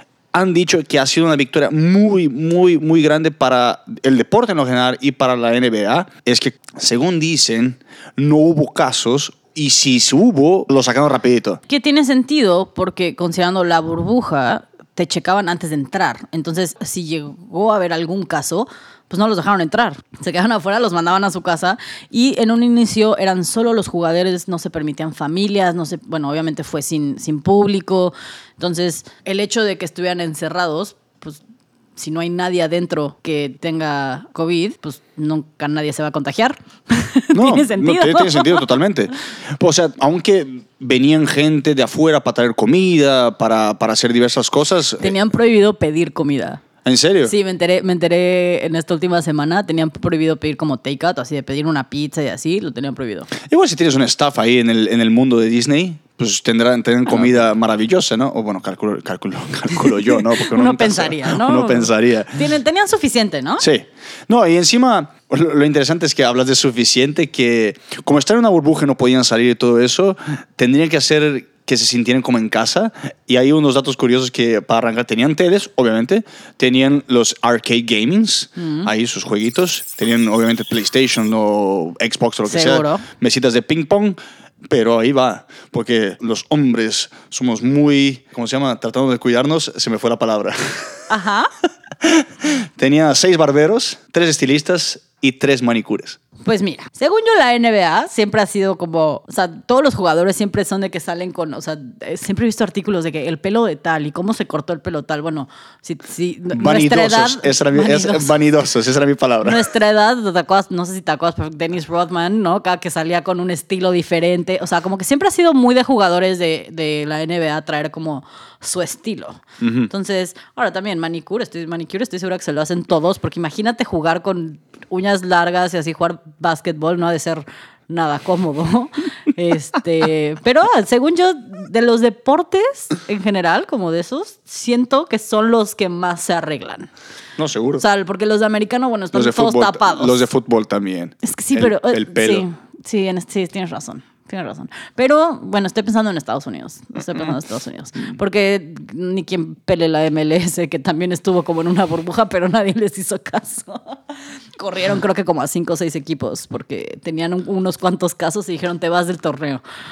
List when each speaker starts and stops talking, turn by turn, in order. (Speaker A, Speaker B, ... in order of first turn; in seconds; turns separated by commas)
Speaker A: 0.3-11.6, Speaker B: 11.7-31.4, Speaker B: 31.9-38.7, Speaker A: 37.3-45.1, Speaker B: 45.0-46.6, Speaker A: 46.8-47.3, Speaker B: 47.2-53.3, Speaker A: 53.4-62.4, Speaker B: 60.1-63.6, Speaker A: 63.6-84.2, Speaker B: 78.6-78.9, Speaker B: 82.5-83.0, Speaker A: 84.7-91.0, Speaker B: 91.1-91.5, Speaker A: 92.0-96.2, Speaker B: 96.4-108.3, Speaker A: 106.5-109.6, Speaker B: 109.4-136.9, Speaker A: 119.6-119.9, Speaker A: 137.4-137.8, Speaker B: 137.8-140.2, Speaker A: 139.1-142.4, Speaker B: 141.2-154.0, Speaker B: 154.6-159.6